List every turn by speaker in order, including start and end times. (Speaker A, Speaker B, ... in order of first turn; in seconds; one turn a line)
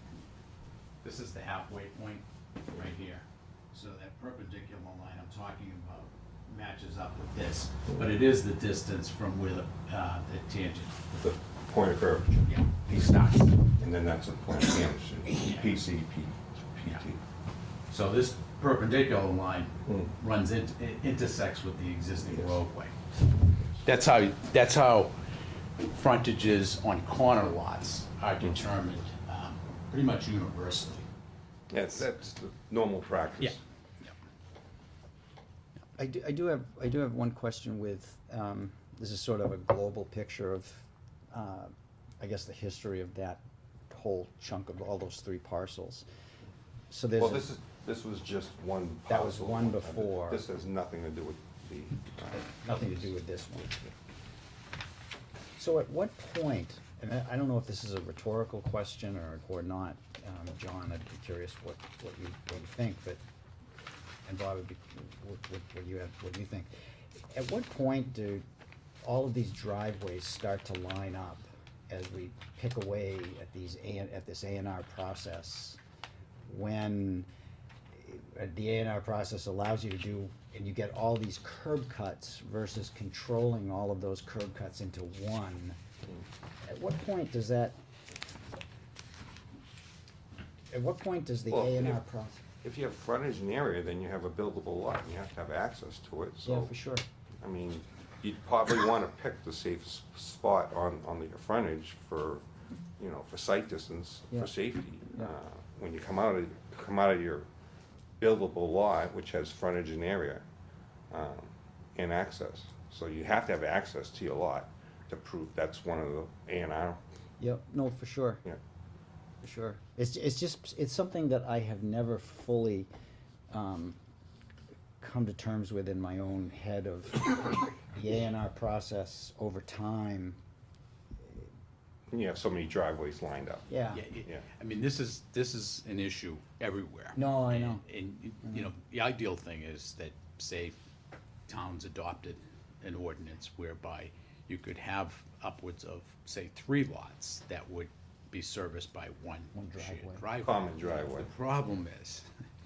Speaker A: 1.0-11.0
Speaker B: 11.1-12.5
Speaker A: 12.4-13.6
Speaker B: 13.8-17.2
Speaker A: 17.9-22.9
Speaker B: 19.9-20.1
Speaker A: 23.8-25.2
Speaker A: 25.8-31.0
Speaker B: 31.7-33.6
Speaker A: 33.4-34.1
Speaker C: 36.0-46.1
Speaker C: 46.9-47.5
Speaker B: 47.2-53.9
Speaker C: 49.1-50.4
Speaker C: 52.6-53.7
Speaker C: 55.6-63.2
Speaker C: 64.2-66.7
Speaker C: 67.3-68.4
Speaker C: 69.0-75.8
Speaker C: 76.5-77.3
Speaker C: 77.9-85.8
Speaker C: 86.6-87.8
Speaker C: 90.7-92.4
Speaker B: 91.5-92.0
Speaker B: 92.6-96.7
Speaker C: 96.4-97.0
Speaker B: 97.4-102.4
Speaker B: 103.0-107.5
Speaker B: 108.2-110.4
Speaker B: 111.1-117.0
Speaker C: 117.4-118.4
Speaker C: 119.4-122.9
Speaker C: 123.5-124.0
Speaker C: 125.0-130.4
Speaker B: 132.1-133.7
Speaker C: 133.7-134.0
Speaker A: 133.9-140.8
Speaker C: 137.1-137.8
Speaker A: 141.5-152.3
Speaker C: 149.5-150.2
Speaker B: 150.4-151.3